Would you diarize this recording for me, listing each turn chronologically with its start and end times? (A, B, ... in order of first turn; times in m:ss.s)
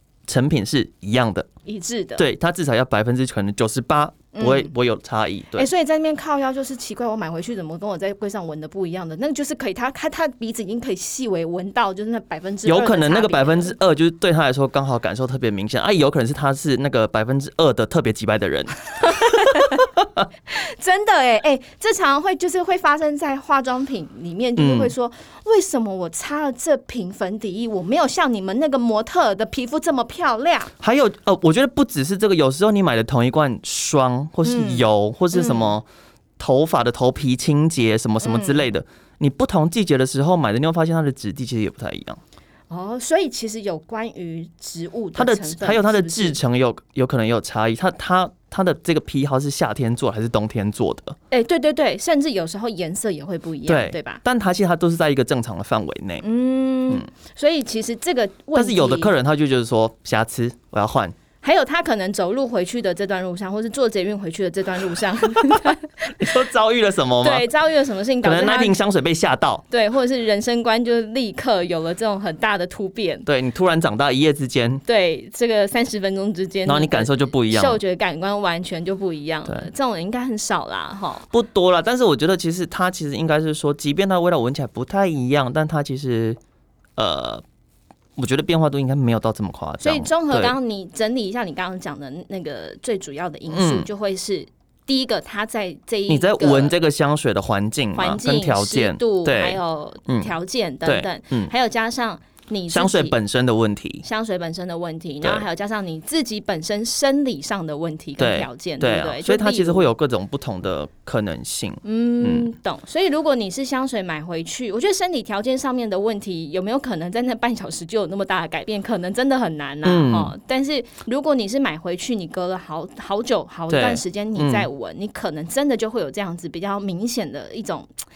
0:00.3-0:01.5 A
0:01.6-0:02.3 B
0:02.2-0:05.7 A
0:04.3-0:04.7 B
0:05.5-0:13.8 B
0:12.6-0:20.2 A
0:19.0-0:19.9 B
0:20.5-0:30.7 B
0:24.6-0:24.9 A
0:30.8-0:35.8 A
0:34.4-0:35.8 B
0:36.4-0:42.2 A
0:38.2-0:38.6 B
0:42.7-0:46.4 B
0:45.1-0:51.2 A
0:51.3-0:54.2 B
0:53.7-0:56.2 A
0:56.2-0:59.1 B
0:58.5-1:01.2 A
1:01.4-1:06.3 B
1:06.2-1:07.5 A
1:07.2-1:08.8 B
1:08.2-1:09.6 A
1:09.7-1:13.3 B
1:13.2-1:14.8 A
1:14.8-1:21.3 B
1:16.6-1:17.8 A
1:21.3-1:26.4 A
1:27.0-1:27.4 A
1:28.2-1:30.5 A
1:29.8-1:36.7 B
1:33.5-1:33.9 A
1:36.1-1:40.3 A
1:37.9-1:43.1 B
1:40.8-1:41.5 A
1:42.7-1:44.0 A
1:44.0-1:49.9 B
1:48.2-1:52.5 A
1:51.8-2:07.9 B
1:59.8-2:00.3 A
2:03.7-2:04.7 A